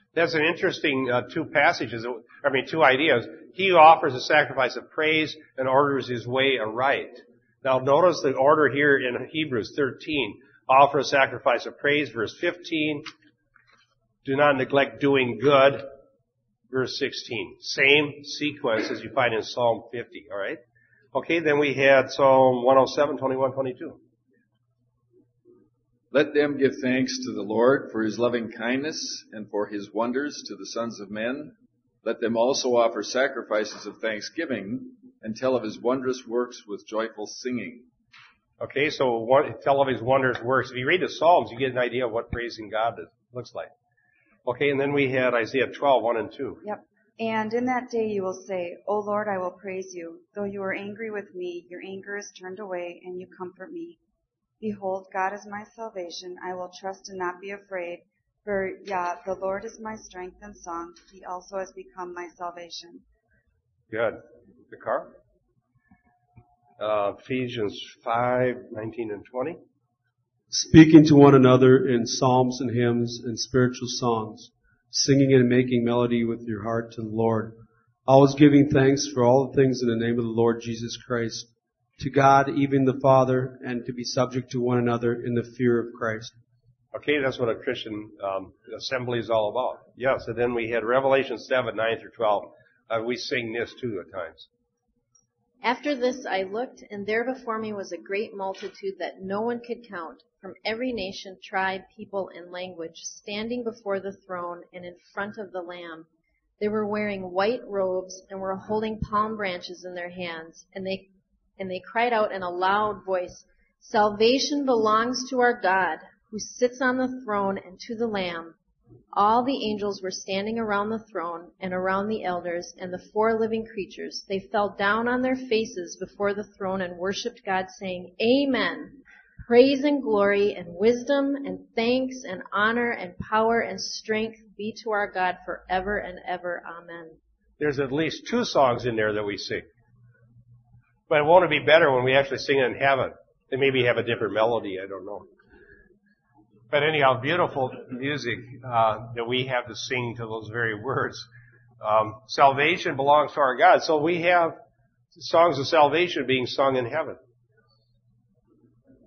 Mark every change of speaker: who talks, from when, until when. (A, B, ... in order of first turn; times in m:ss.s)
0:00.2-0:13.0 A
0:14.2-0:15.8 A
0:16.7-0:20.6 A
0:21.1-0:24.0 A
0:26.1-0:37.9 B
0:38.6-0:43.7 A
0:44.5-0:46.6 A
0:46.6-0:54.0 C
0:54.6-1:03.0 C
1:03.9-1:04.2 A
1:04.7-1:05.1 A
1:06.8-1:09.6 A
1:10.5-1:26.4 D
1:26.9-1:34.5 A
1:35.6-1:46.1 E
1:46.6-1:58.6 E
1:59.1-2:17.2 E
2:17.6-2:19.7 A
2:21.1-2:25.3 A
2:26.7-2:31.3 A
2:31.8-2:34.6 A
2:35.1-2:37.2 A